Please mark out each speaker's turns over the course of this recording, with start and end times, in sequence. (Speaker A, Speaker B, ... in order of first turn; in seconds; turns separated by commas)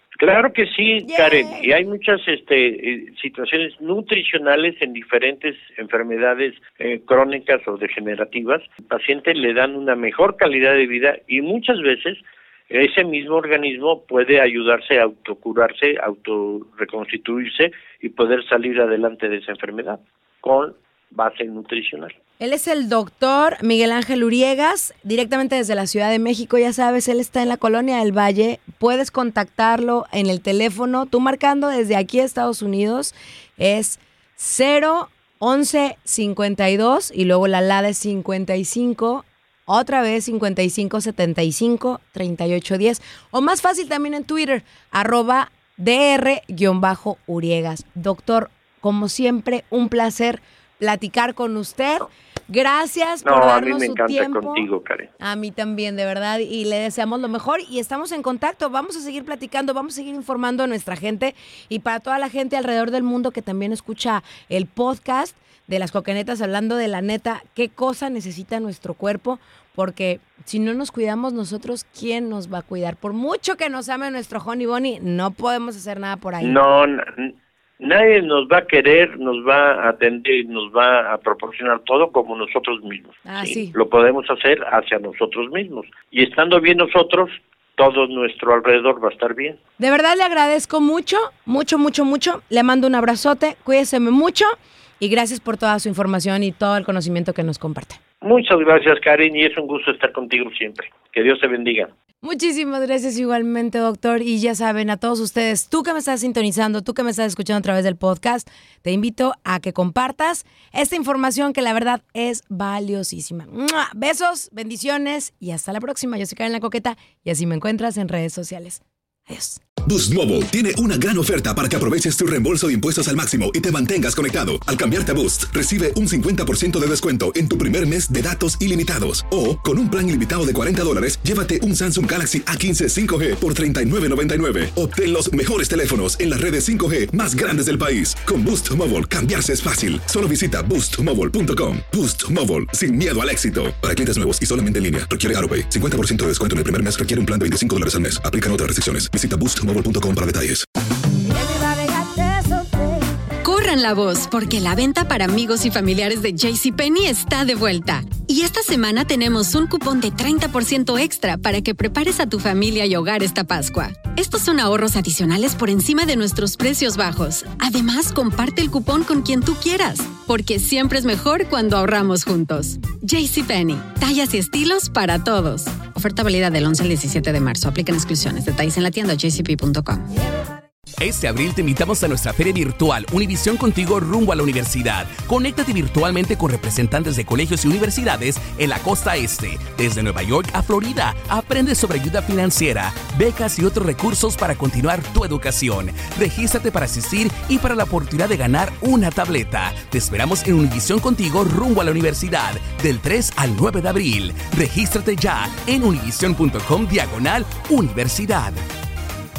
Speaker A: 0.2-22.1, Speaker B: 1.0-1.7, Speaker B: 22.4-54.6, Speaker A: 53.2-55.1, Speaker B: 55.2-76.6, Speaker A: 76.4-89.6, Speaker B: 83.2-83.7, Speaker B: 89.8-98.0, Speaker A: 98.2-101.9, Speaker B: 102.2-119.6, Speaker C: 119.8-150.7, Speaker B: 151.3-152.8, Speaker D: 153.4-180.2, Speaker E: 181.0-208.6